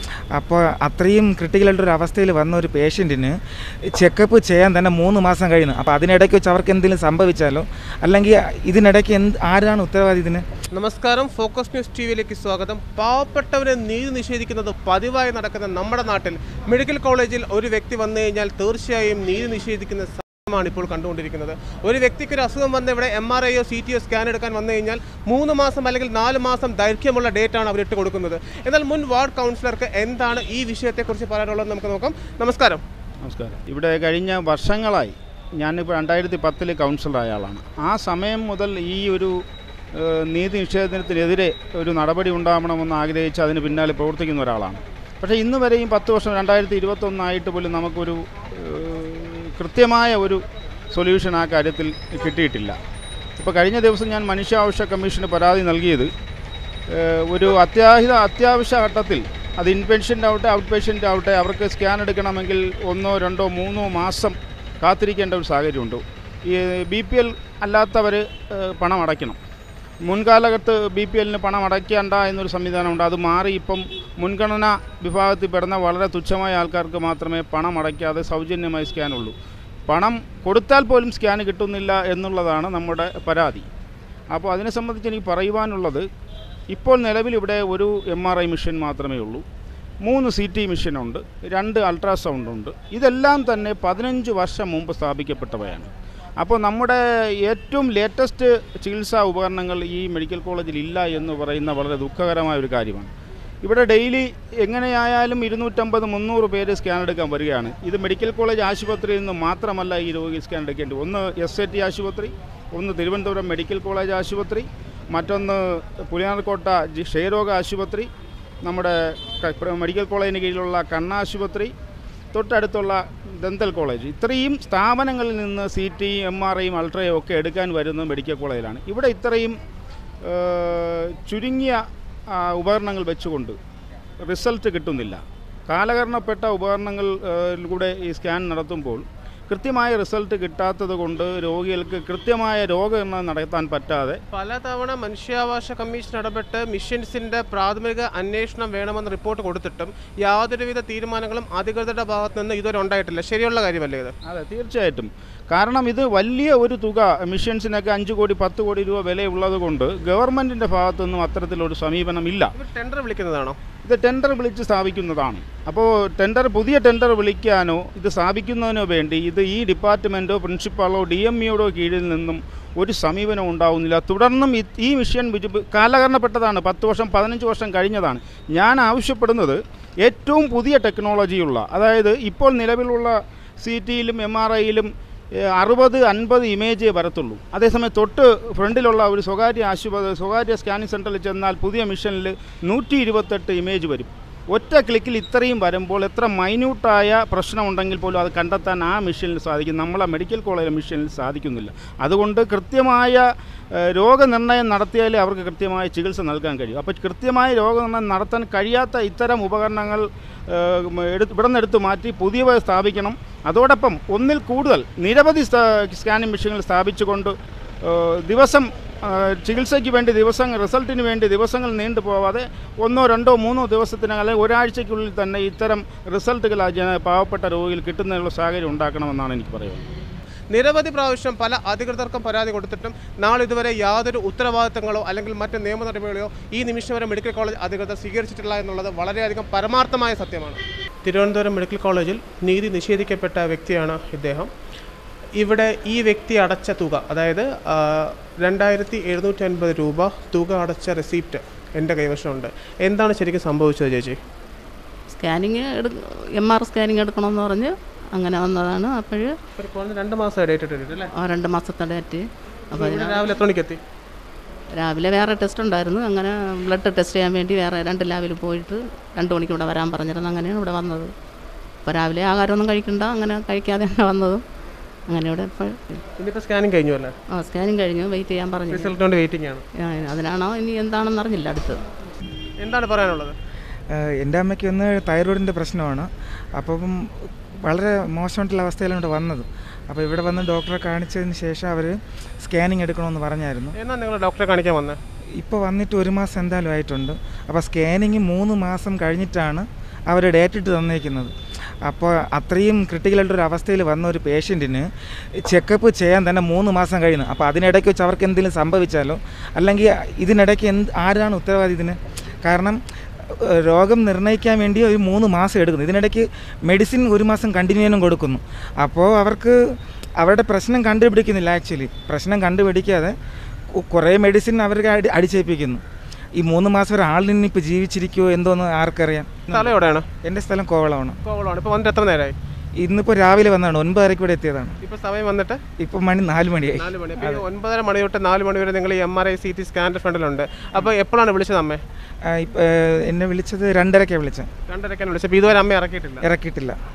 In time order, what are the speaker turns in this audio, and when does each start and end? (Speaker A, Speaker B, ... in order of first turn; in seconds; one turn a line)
Speaker A: 0.3-3.4
Speaker A: 3.9-10.4
Speaker B: 10.7-32.8
Speaker C: 33.2-39.3
Speaker C: 39.9-52.8
Speaker C: 53.4-56.1
Speaker C: 56.9-69.4
Speaker C: 70.0-79.3
Speaker C: 79.9-83.7
Speaker C: 84.3-86.1
Speaker C: 86.7-89.4
Speaker C: 90.0-95.9
Speaker C: 96.4-103.1
Speaker C: 103.6-118.1
Speaker C: 118.6-121.7
Speaker C: 122.3-129.6
Speaker C: 130.2-133.6
Speaker C: 134.2-144.2
Speaker B: 144.3-154.1
Speaker C: 154.2-162.5
Speaker B: 162.5-163.6
Speaker C: 163.8-229.9
Speaker B: 230.5-244.5
Speaker B: 245.4-254.2
Speaker D: 255.1-259.4
Speaker B: 259.6-261.1
Speaker D: 261.1-263.4
Speaker B: 262.7-263.8
Speaker D: 264.8-271.1
Speaker D: 271.9-274.4
Speaker D: 275.1-276.0
Speaker B: 276.2-277.1
Speaker D: 277.3-278.9
Speaker B: 278.7-279.7
Speaker D: 279.8-281.8
Speaker B: 282.6-283.4
Speaker A: 283.9-293.8
Speaker B: 293.8-295.0
Speaker A: 295.4-301.3
Speaker A: 301.9-304.9
Speaker A: 305.4-319.6
Speaker A: 320.2-323.1
Speaker A: 323.7-325.8
Speaker A: 326.4-329.7
Speaker B: 329.5-330.1
Speaker A: 330.2-331.2
Speaker B: 331.2-332.4
Speaker A: 332.8-334.8
Speaker B: 334.8-335.6
Speaker A: 335.8-337.4
Speaker B: 336.7-341.8
Speaker A: 342.2-344.5
Speaker B: 344.7-346.2
Speaker A: 346.2-346.8